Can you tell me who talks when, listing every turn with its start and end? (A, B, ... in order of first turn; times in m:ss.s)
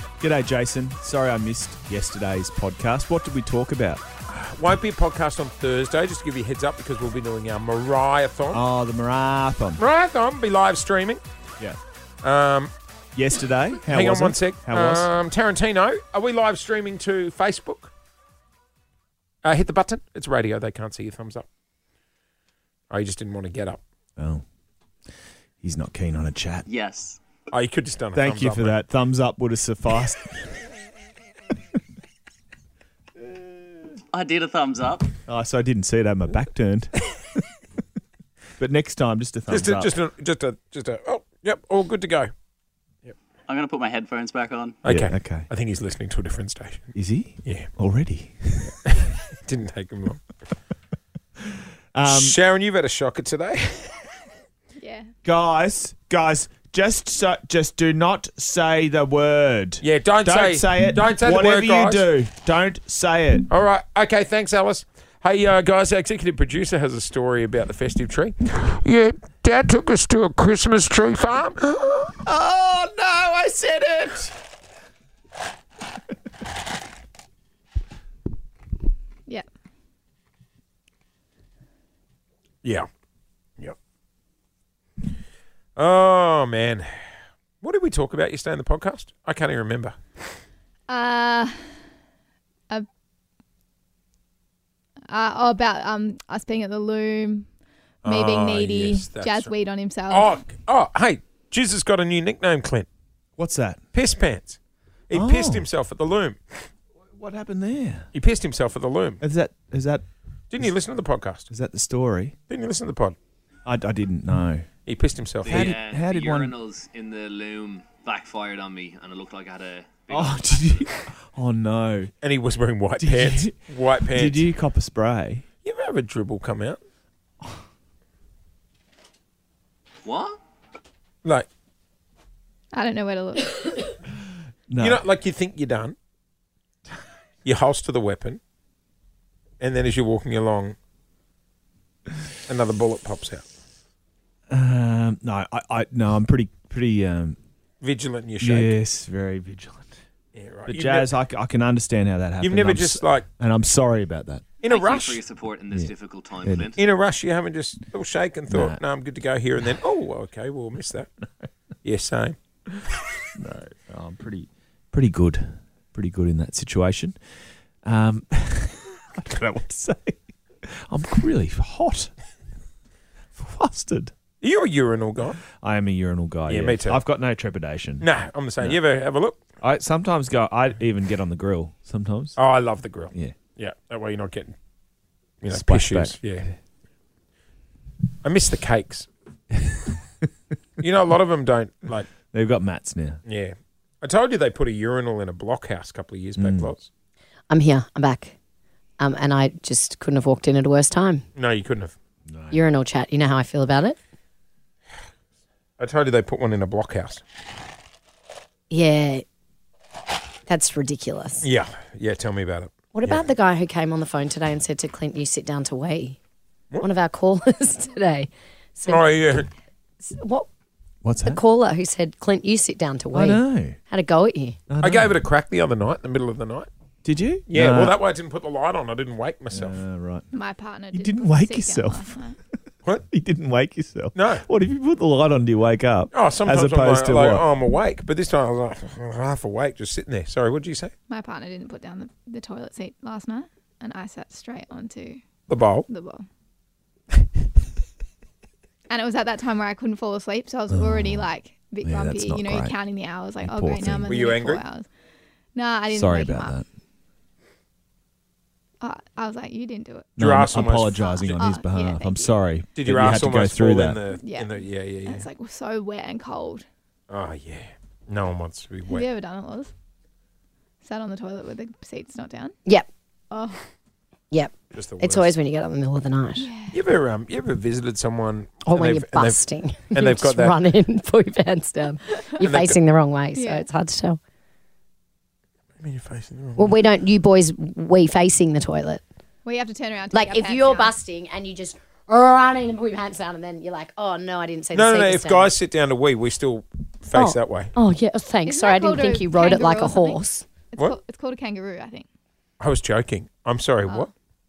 0:00.2-0:04.0 A
0:04.3-0:08.6 B
0:08.5-0:09.8 A
0:09.8-0:11.2 B
0:12.2-0:12.7 B
0:13.2-0:15.1 A
0:13.8-0:17.9 B
0:19.4-0:21.5 B
0:22.9-0:23.8 B
0:24.2-0:24.4 A
0:25.6-0:26.6 A
0:26.7-0:27.2 C
0:27.5-0:28.8 B
0:28.1-0:30.5 A
0:34.1-0:35.1 C
0:35.3-0:37.0 A
0:38.6-0:40.0 A
0:39.5-0:42.3 B
0:43.5-0:44.7 C
0:44.8-0:46.9 B
0:44.9-0:45.5 A
0:47.0-0:48.7 A
0:49.4-0:50.2 B
0:51.9-0:52.4 A
0:52.0-0:54.1 B
0:54.8-0:55.1 D
0:55.2-1:03.5 A
0:59.8-1:02.1 B
1:03.5-1:12.2 B
1:12.2-1:14.3 A
1:25.8-1:27.0 B
1:27.6-1:30.0 B
1:30.9-1:31.7 D
1:35.1-1:37.5 D
1:38.0-1:39.5 B
1:38.0-1:40.3 D
1:40.1-1:42.9 B
1:43.4-1:43.8 A
1:43.9-1:44.6 B
1:45.1-1:46.6 B
1:45.1-1:45.7 A
1:47.2-1:48.1 A
1:48.1-1:49.2 B
1:49.2-1:50.0 A
1:50.5-1:51.5 B
1:51.5-1:52.4 A
1:52.5-1:53.2 B
1:53.7-1:54.7 A
1:54.9-1:55.8 B
1:55.4-2:00.4 C
1:55.4-1:56.6 A
2:00.1-2:02.1 A
2:02.2-2:04.4 B
2:03.0-2:03.6 A
2:04.1-2:05.4 A
2:05.6-2:06.8 B
2:10.0-2:10.4 C
2:12.7-2:14.0 D
2:14.7-2:15.0 A
2:14.8-2:16.0 B
2:17.4-2:18.4 B
2:19.6-2:20.8 B
2:22.5-2:23.4 B
2:24.5-2:27.4 A
2:27.8-2:28.8 B
2:28.4-2:30.0 A
2:30.3-2:31.1 B
2:30.7-2:34.5 A
2:32.4-2:33.3 B
2:34.6-2:35.2 B
2:34.7-2:36.8 C
2:36.4-2:36.8 A
2:36.7-2:41.1 B
2:38.5-2:38.8 A
2:41.8-2:42.4 B
2:43.4-2:47.2 A
2:47.8-2:52.1 A
2:53.4-2:54.1 A
2:54.4-2:55.4 B
2:55.5-2:58.1 A
2:56.5-2:57.0 B
2:58.0-2:59.4 B
2:59.6-3:02.4 A
3:02.4-3:04.6 B
3:05.4-3:06.5 B
3:05.5-3:06.2 A
3:08.2-3:09.1 B
3:10.8-3:12.1 B
3:12.3-3:13.2 A
3:13.2-3:16.9 B
3:16.4-3:16.7 A
3:17.5-3:18.4 E
3:19.0-3:21.2 E
3:21.4-3:22.0 B
3:22.3-3:22.6 A
3:22.5-3:24.0 E
3:25.8-3:27.2 B
3:28.7-3:29.2 E
3:30.5-3:31.5 E
3:31.4-3:33.2 B
3:32.9-3:36.2 E
3:36.8-3:39.1 E
3:38.9-3:39.5 B
3:40.0-3:40.5 E
3:41.0-3:41.4 A
3:41.2-3:44.6 E
3:43.1-3:43.8 A
3:44.7-3:45.2 A
3:44.8-3:46.7 B
3:47.0-3:48.0 A
3:47.5-3:49.8 B
3:49.5-3:50.2 A
3:50.3-3:52.4 D
3:50.9-3:52.2 A
3:53.0-3:57.5 A
3:54.2-3:54.4 B
3:56.1-4:00.9 B
4:01.1-4:05.2 D
4:05.5-4:05.9 B
4:05.9-4:06.2 D
4:08.9-4:14.9 D
4:10.7-4:11.3 A
4:11.8-4:12.8 A
4:13.4-4:14.1 A
4:14.1-4:14.6 B
4:15.6-4:16.6 D
4:15.9-4:16.7 A
4:18.8-4:20.1 D
4:20.2-4:21.4 B
4:20.2-4:24.0 A
4:21.0-4:22.3 D
4:22.8-4:25.2 B
4:24.1-4:26.7 D
4:27.1-4:29.1 B
4:28.9-4:29.7 D
4:30.8-4:32.6 D
4:33.3-4:33.6 D
4:34.3-4:36.5 E
4:34.7-4:35.3 B
4:36.4-4:36.8 D
4:36.7-4:40.6 B
4:38.7-4:44.2 E
4:42.4-4:42.8 B
4:43.4-4:43.7 D
4:45.8-4:46.8 B
4:46.6-4:49.0 E
4:49.4-4:50.9 D
4:50.1-4:55.5 E
4:54.7-4:57.7 B
4:57.1-5:00.4 E
4:58.4-5:02.1 D
5:02.6-5:04.1 B